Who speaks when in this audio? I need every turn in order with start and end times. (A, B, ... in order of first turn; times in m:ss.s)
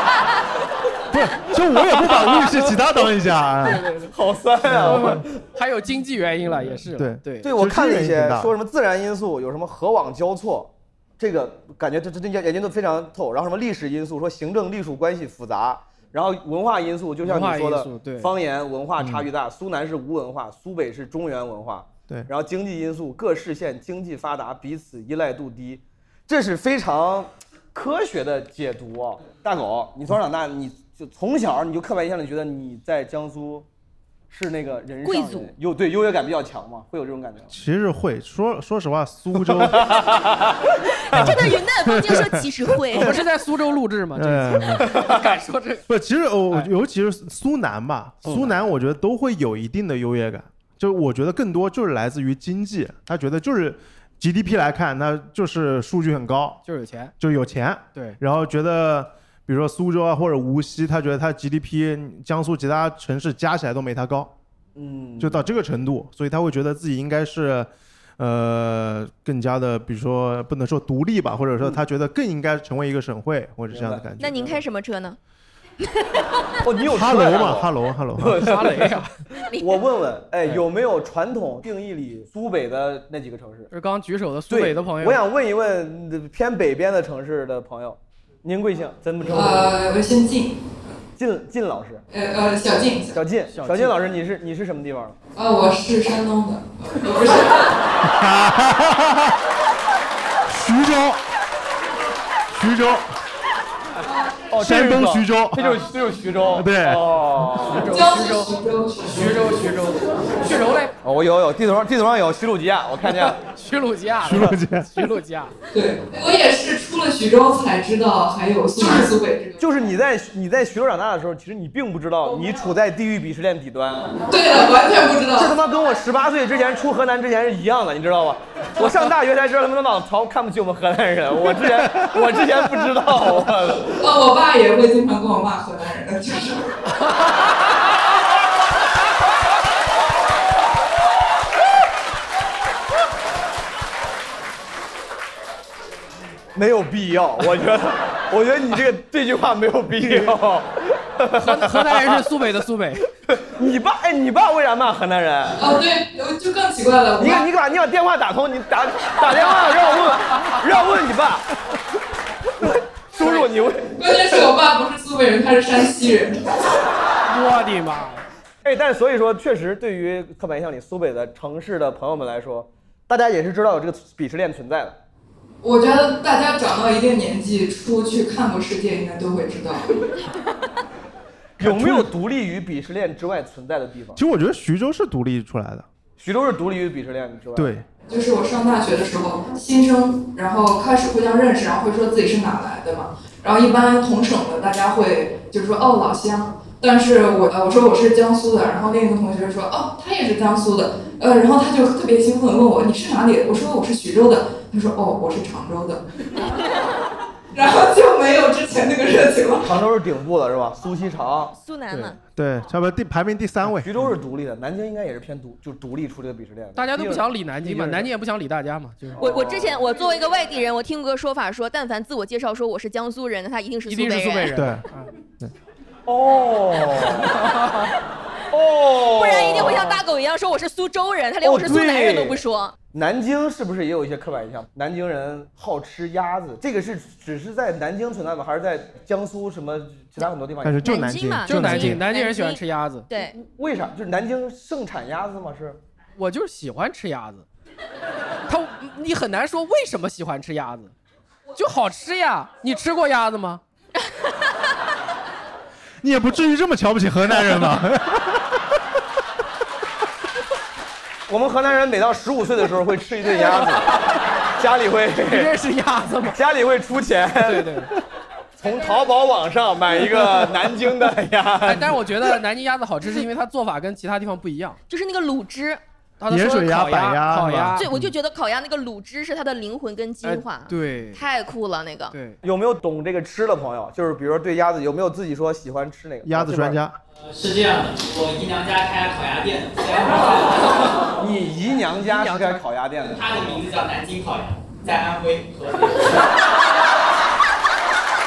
0:01.1-0:03.9 A
0:04.0-0:05.4 B
0:04.8-0:07.5 C
0:06.9-0:08.5 A
0:07.4-0:33.7 B
0:17.2-0:18.3 C
0:19.0-0:19.3 A
0:34.3-0:37.5 B
0:35.0-0:35.5 D
0:37.5-0:39.9 A
0:41.1-0:43.2 D
0:41.1-0:42.4 A
0:42.9-0:45.8 C
0:44.2-0:44.9 A
0:44.9-0:45.3 B
0:45.9-0:56.6 A
0:48.2-0:48.6 C
0:56.6-0:57.2 C
0:57.2-1:04.3 A
0:57.9-0:58.2 C
1:04.8-1:05.5 B
1:05.2-1:14.4 A
1:13.7-1:14.5 B
1:14.2-1:15.2 D
1:16.6-1:19.0 B
1:16.9-1:18.5 A
1:18.4-1:19.2 C
1:19.6-1:23.7 B
1:23.7-1:25.2 C
1:24.5-1:29.8 B
1:29.3-1:30.6 E
1:31.2-1:32.0 B
1:32.1-1:33.2 E
1:33.1-1:35.2 B
1:33.5-1:34.0 C
1:35.4-1:37.8 E
1:38.1-1:39.3 A
1:40.5-1:41.2 A
1:42.5-1:43.0 A
1:44.5-1:47.9 B
1:44.6-1:45.8 A
1:46.6-1:47.1 A
1:47.6-1:50.9 C
1:47.9-1:49.6 E
1:51.0-1:53.4 B
1:53.1-1:55.5 C
1:54.2-1:55.1 A
1:55.7-1:59.6 E
1:59.6-2:04.2 B
2:04.3-2:05.5 E
2:05.3-2:14.0 B
2:14.0-2:16.7 E
2:26.6-2:32.2 B
2:31.4-2:33.0 C
2:33.3-2:35.7 B
2:35.6-2:37.4 E
2:37.2-2:41.5 B
2:42.6-2:44.4 B
2:44.0-2:46.4 E
2:47.3-2:48.2 C
2:48.6-2:55.0 B
2:55.6-3:00.0 E
3:01.6-3:02.1 A
3:01.6-3:04.2 B
3:04.2-3:05.9 A
3:06.2-3:07.7 B
3:07.6-3:07.8 A
3:08.1-3:26.0 E
3:27.5-3:29.7 E
3:29.6-3:31.5 B
3:31.5-3:32.2 D
3:31.9-3:32.2 C
3:32.3-3:34.0 A
3:33.8-3:38.1 B
3:36.8-3:39.3 C
3:39.2-3:39.8 B
3:39.2-3:44.6 D
3:43.9-3:45.1 C
3:44.6-3:44.8 A
3:46.1-3:47.3 B
3:47.4-3:47.9 C
3:48.5-3:50.0 B
3:49.1-3:52.8 D
3:51.4-3:52.4 B
3:52.9-4:01.0 B
4:00.6-4:02.0 A
4:00.8-4:03.4 D
4:01.4-4:03.1 C
4:03.3-4:05.8 B
4:06.2-4:07.5 C
4:08.5-4:10.9 C
4:11.6-4:13.6 C
4:16.0-4:18.4 A
4:21.3-4:23.9 B
4:24.6-4:25.5 B
4:25.2-4:26.4 C
4:26.3-4:27.7 B
4:27.4-4:27.9 C
4:28.6-4:32.1 B
4:31.6-4:34.8 C
4:34.9-4:35.8 D
4:36.2-4:37.9 C
4:36.3-4:38.1 A
4:37.8-4:42.2 D
4:40.2-4:41.2 C
4:42.1-4:42.4 C
4:42.4-4:46.8 B
4:46.2-4:47.0 A
4:47.2-4:51.1 F
4:51.2-4:53.3 B
4:52.0-4:52.6 C
4:53.1-4:56.2 F